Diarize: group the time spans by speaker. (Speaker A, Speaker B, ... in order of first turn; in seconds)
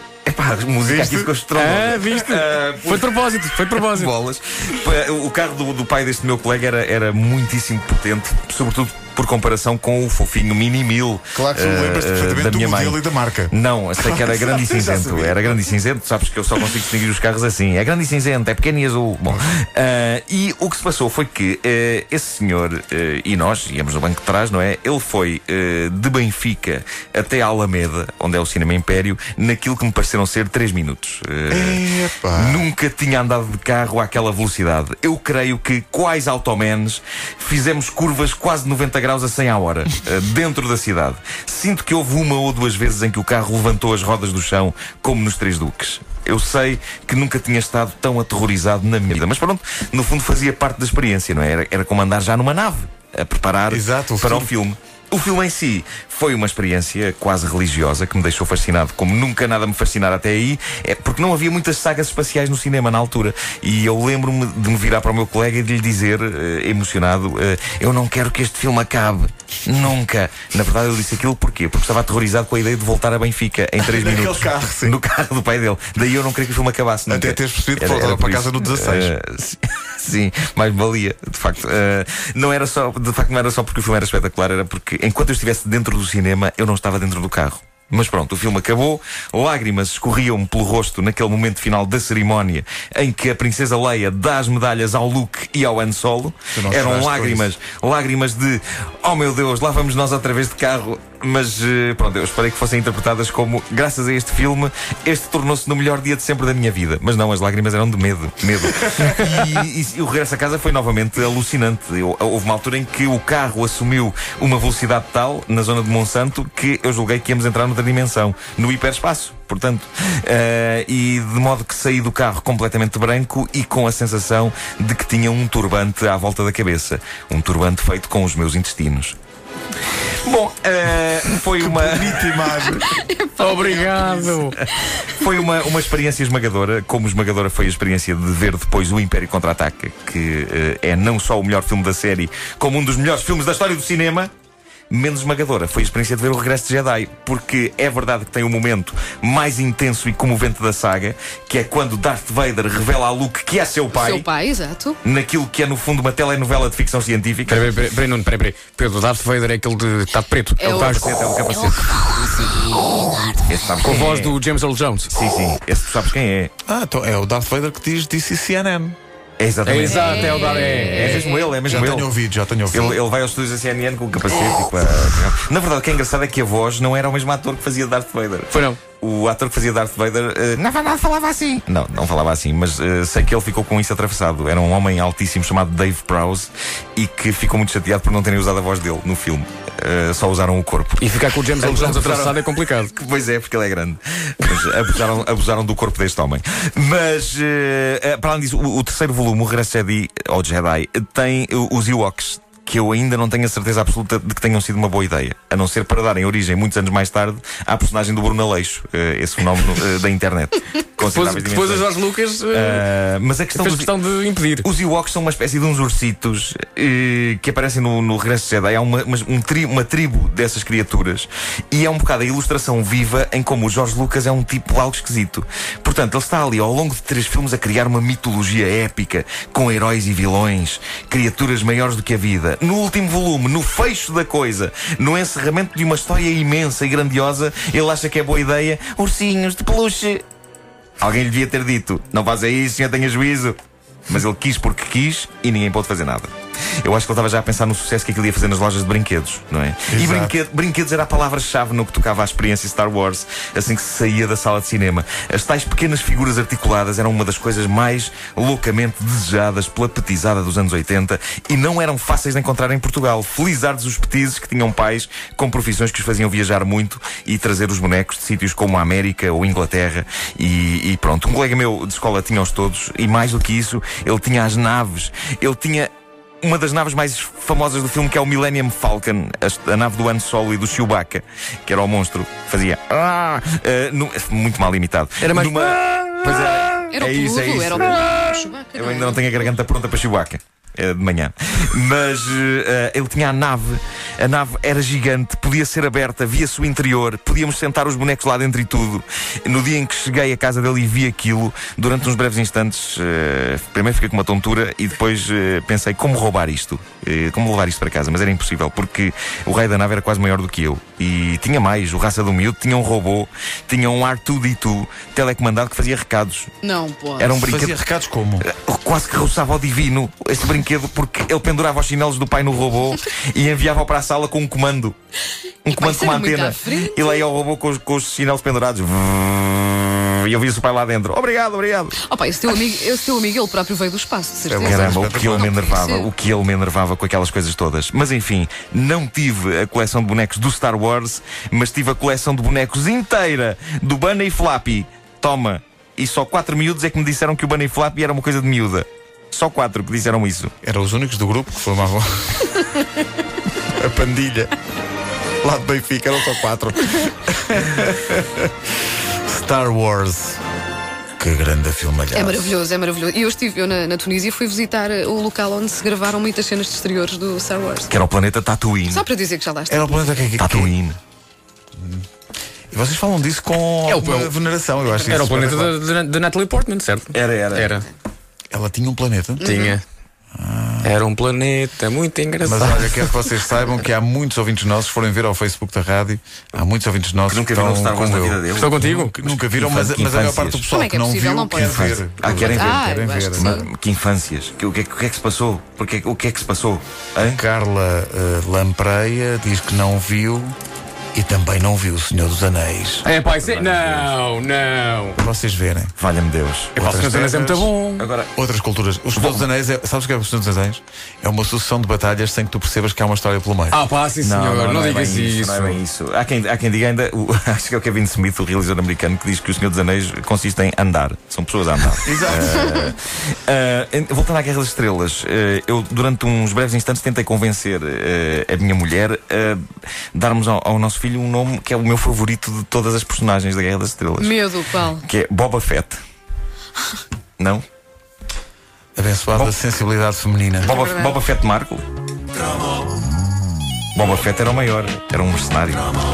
Speaker A: 0.2-31.8, 32.3-129.2, 130.2-132.5, 135.1-144.3, 144.9-154.2, 155.0-157.7, 160.6-162.1, 163.4-164.4, 165.1-166.5, 169.4-172.1, 172.7-211.9, 212.5-213.9, 214.6-240.2, 241.0-243.6, 244.1-246.3, 246.8-275.9, 276.4-316.5, 317.2-317.8, 318.4-324.9, 325.6-331.9, 334.6-350.5, 367.9-369.0, 370.4-371.0, 377.1-377.7, 387.3-390.6, 391.5-397.4, 403.2-404.1, 406.0-406.8, 408.0-408.3, 409.1-409.5, 414.2-429.6, 430.1-434.4, 435.0-436.0, 437.4-437.6, 440.6-441.8, 443.9-445.9
Speaker B: 0.8-1.3, 11.3-15.5, 31.5-32.7, 53.7-54.5, 73.8-75.0, 77.1-79.1, 96.5-97.5, 131.6-132.9, 166.7-168.9, 171.6-173.0, 249.9-250.3, 317.4-318.5, 334.5-335.6, 350.6-352.7, 353.7-354.5, 355.4-358.5, 359.2-360.4, 361.2-362.5, 369.7-370.7, 371.8-372.0, 372.7-375.7, 378.5-379.4, 380.3-380.9, 382.4-393.6, 397.2-400.6, 401.1-403.1, 405.2-405.9, 406.8-407.7, 408.4-413.8, 422.0-422.9, 438.9-440.7
Speaker C: 1.5-4.1, 133.4-134.6, 157.5-161.4, 163.8-165.1, 169.7-171.4, 178.5-178.8, 191.0-192.9, 211.0-212.8, 213.5-214.7, 285.2-286.8, 373.9-374.3, 375.1-377.9, 379.4-379.8, 380.8-383.1, 388.0-389.1, 403.0-405.2, 406.8-408.1, 413.7-415.8
Speaker D: 132.9-134.2, 153.9-155.0, 160.6-160.9, 161.6-163.3, 169.9-171.2, 286.9-289.2, 316.6-317.3, 325.7-327.0, 332.1-334.8, 335.3-336.0, 362.1-367.9, 368.9-370.0, 379.4-379.7, 390.7-393.7, 434.2-435.0, 440.6-441.1